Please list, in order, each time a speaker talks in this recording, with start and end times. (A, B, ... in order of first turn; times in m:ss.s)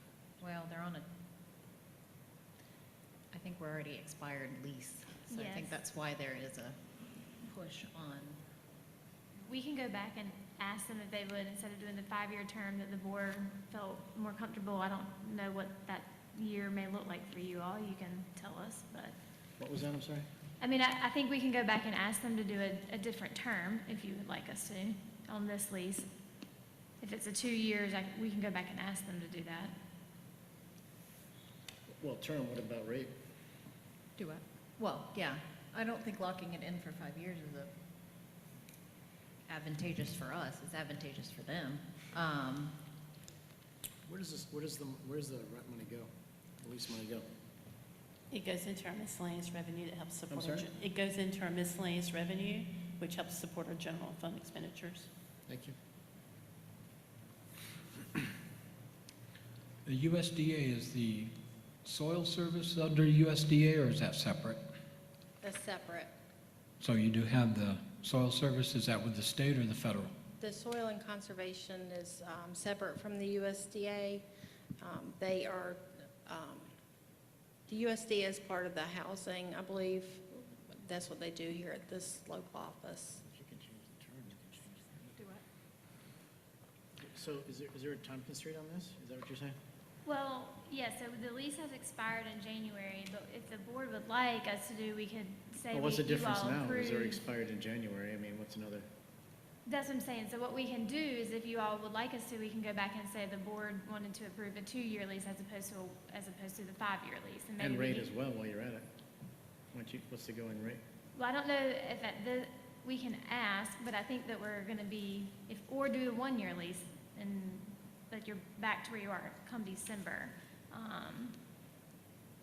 0:00.4-0:01.1 A
0:03.3-0:06.8 A
0:05.3-0:05.8 B
0:07.4-0:08.4 A
0:09.4-0:19.2 B
0:19.6-0:20.3 C
0:20.6-0:26.1 B
0:27.0-0:29.7 B
0:31.9-0:33.2 C
0:34.2-0:37.7 A
0:39.5-0:42.8 A
0:44.1-0:47.3 C
0:48.3-0:55.1 D
0:50.3-0:50.7 C
0:55.5-0:55.8 C
0:59.8-1:01.3 E
1:01.8-1:04.6 E
1:05.4-1:06.1 F
1:06.8-1:10.2 E
1:10.4-1:14.2 F
1:14.8-1:16.7 F
1:17.7-1:23.2 F
1:23.3-1:25.2 C
1:27.0-1:29.6 C
1:30.0-1:37.2 B
1:35.7-1:38.9 C
1:39.7-1:48.1 B
1:47.6-1:48.9 C
1:49.7-1:50.8 C
1:51.2-2:01.4 B